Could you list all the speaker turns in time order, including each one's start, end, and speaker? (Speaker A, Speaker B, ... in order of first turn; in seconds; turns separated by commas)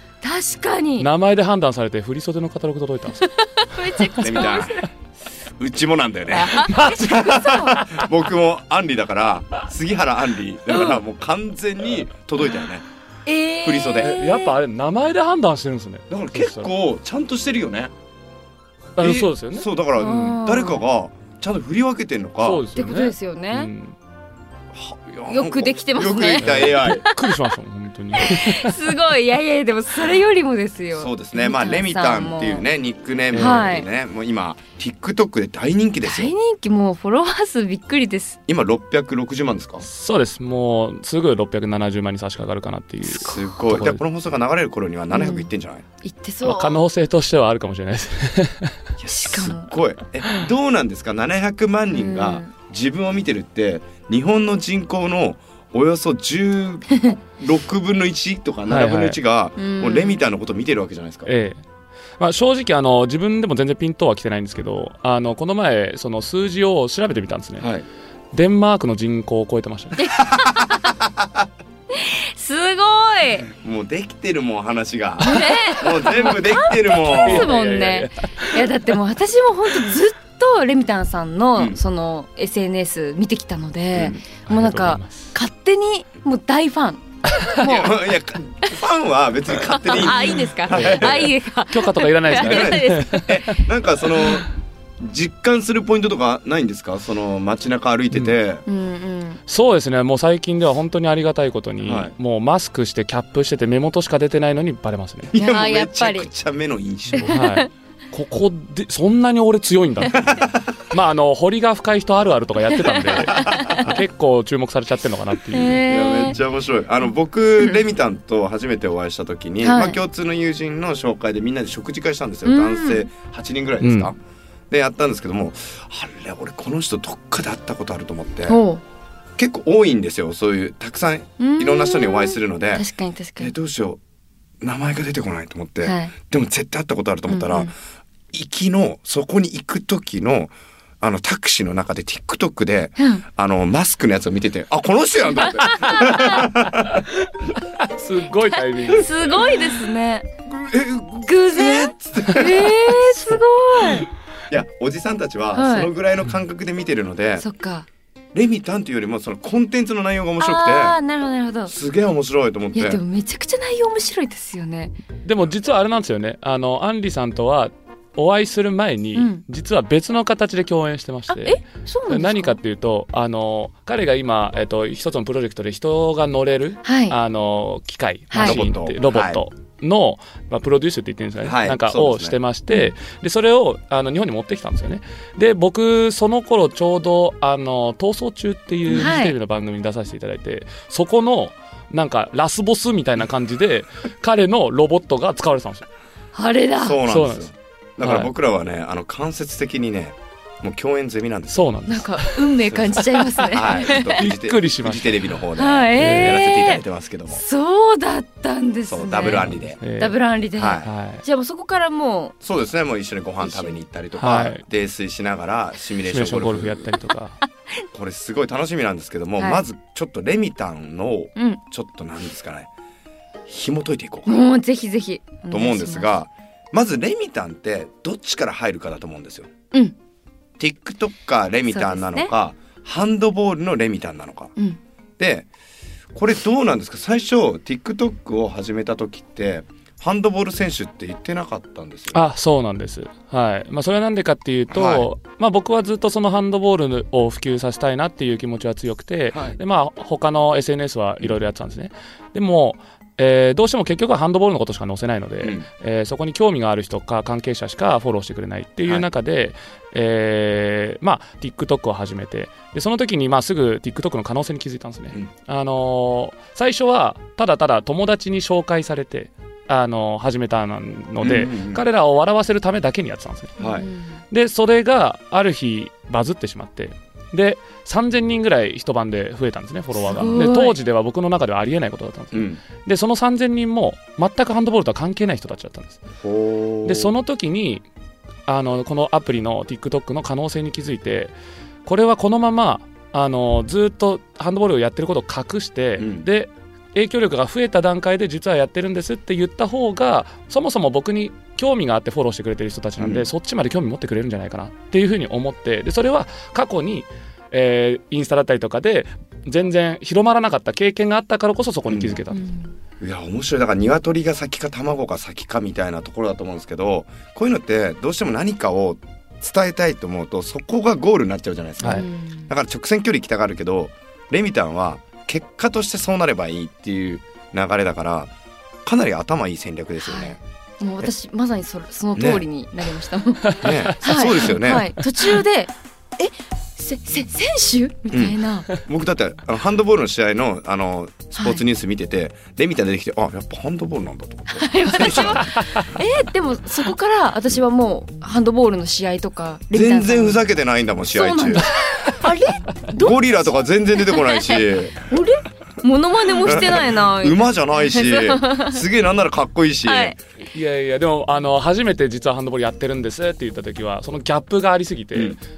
Speaker A: 0.2-1.1, Speaker B: 1.0-3.3, Speaker A: 3.2-4.9, Speaker C: 4.2-4.8, Speaker C: 5.6-12.9, Speaker A: 6.3-7.9, Speaker A: 10.7-11.0, Speaker A: 13.3-14.6, Speaker C: 13.6-14.2, Speaker B: 14.0-16.7, Speaker C: 16.1-17.9, Speaker B: 19.0-19.7, Speaker C: 19.0-22.7, Speaker A: 20.0-20.8, Speaker B: 22.4-23.9, Speaker A: 22.8-23.7, Speaker C: 24.7-27.1, Speaker A: 25.3-27.4, Speaker B: 26.4-28.8, Speaker A: 28.1-32.6, Speaker C: 30.9-36.3, Speaker B: 33.3-33.6, Speaker A: 33.4-33.9, Speaker A: 36.0-38.4, Speaker C: 38.5-39.9, Speaker B: 39.8-44.0, Speaker C: 43.1-45.8, Speaker A: 45.1-45.5, Speaker A: 46.0-46.8, Speaker B: 46.4-48.7, Speaker C: 49.0-61.3, Speaker A: 49.1-49.7, Speaker A: 51.9-52.5, Speaker B: 58.7-59.2, Speaker A: 59.6-60.2, Speaker B: 61.3-61.6, Speaker B: 62.2-67.7, Speaker C: 67.6-67.8, Speaker B: 68.3-70.1, Speaker A: 70.0-71.0, Speaker C: 70.3-71.5, Speaker A: 71.9-73.5, Speaker C: 73.5-77.5, Speaker A: 75.2-88.0, Speaker B: 77.1-78.6, Speaker C: 84.0-84.2, Speaker B: 84.5-85.3, Speaker C: 87.6-91.3, Speaker A: 89.7-93.6, Speaker B: 90.7-93.4, Speaker C: 92.3-98.7, Speaker A: 98.7-99.4, Speaker B: 99.5-105.3, Speaker C: 101.8-102.1, Speaker C: 105.3-107.4, Speaker A: 105.3-106.3, Speaker A: 107.1-107.7, Speaker B: 107.2-115.8, Speaker C: 110.1-110.7, Speaker A: 112.7-113.9, Speaker C: 113.3-113.8, Speaker A: 115.5-116.4, Speaker C: 115.9-124.2, Speaker A: 119.6-120.0, Speaker A: 122.5-123.1, Speaker B: 123.8-124.1, Speaker C: 124.7-128.6, Speaker A: 128.5-128.8, Speaker C: 129.4-132.8, Speaker A: 131.4-133.5, Speaker C: 133.4-134.0, Speaker C: 134.6-137.7, Speaker A: 135.8-136.1, Speaker A: 137.3-137.7, Speaker C: 138.3-147.1, Speaker A: 143.0-143.2, Speaker A: 145.5-146.5, Speaker B: 147.6-149.7, Speaker A: 148.6-150.3, Speaker C: 150.5-153.0, Speaker A: 151.2-154.1, Speaker C: 154.5-157.4, Speaker A: 155.6-155.9, Speaker A: 157.4-157.9, Speaker C: 158.3-161.0, Speaker A: 160.4-161.7, Speaker C: 161.7-163.0, Speaker A: 162.8-164.9, Speaker B: 165.2-195.9, Speaker A: 169.2-169.4, Speaker A: 171.3-172.6, Speaker A: 176.8-177.2, Speaker A: 178.3-178.6, Speaker C: 178.4-179.4, Speaker C: 181.4-182.4, Speaker A: 188.9-189.3, Speaker A: 196.3-197.0, Speaker C: 196.8-201.7, Speaker B: 197.1-197.5, Speaker B: 198.0-198.3, Speaker B: 201.5-202.6, Speaker A: 201.9-204.3, Speaker B: 203.1-205.3, Speaker C: 203.5-207.4, Speaker A: 205.6-212.3, Speaker B: 206.0-206.4, Speaker C: 208.9-209.8, Speaker B: 209.2-210.2, Speaker C: 210.6-210.9, Speaker B: 210.8-211.2, Speaker C: 212.4-216.9, Speaker A: 213.4-213.8, Speaker B: 214.2-214.6, Speaker B: 216.1-217.4, Speaker C: 217.9-222.7, Speaker A: 219.4-219.7, Speaker C: 223.5-224.3, Speaker A: 224.3-226.2, Speaker C: 225.5-229.5, Speaker C: 230.6-234.5, Speaker A: 231.7-232.3, Speaker C: 235.2-235.5, Speaker C: 236.1-242.2, Speaker B: 242.1-273.6, Speaker C: 244.7-245.1, Speaker C: 249.3-249.6, Speaker C: 271.2-271.9, Speaker C: 273.6-273.9, Speaker A: 273.6-274.2, Speaker B: 274.3-286.0, Speaker A: 280.0-280.8, Speaker C: 282.3-282.6, Speaker C: 286.2-287.1, Speaker B: 286.9-287.9, Speaker B: 288.5-291.3, Speaker B: 291.9-312.4, Speaker C: 296.0-296.3, Speaker C: 303.0-303.3, Speaker C: 311.9-312.2, Speaker A: 312.3-312.7, Speaker C: 313.0-328.3, Speaker A: 321.9-322.5, Speaker C: 328.9-330.4, Speaker A: 330.0-338.7, Speaker C: 332.2-332.4, Speaker C: 333.6-334.9, Speaker C: 338.1-345.5, Speaker A: 341.4-341.6, Speaker A: 344.5-350.4, Speaker C: 349.7-351.7, Speaker A: 351.1-353.4, Speaker C: 352.9-355.0, Speaker A: 354.1-358.8, Speaker C: 356.4-360.2, Speaker A: 359.9-360.2, Speaker B: 360.5-365.4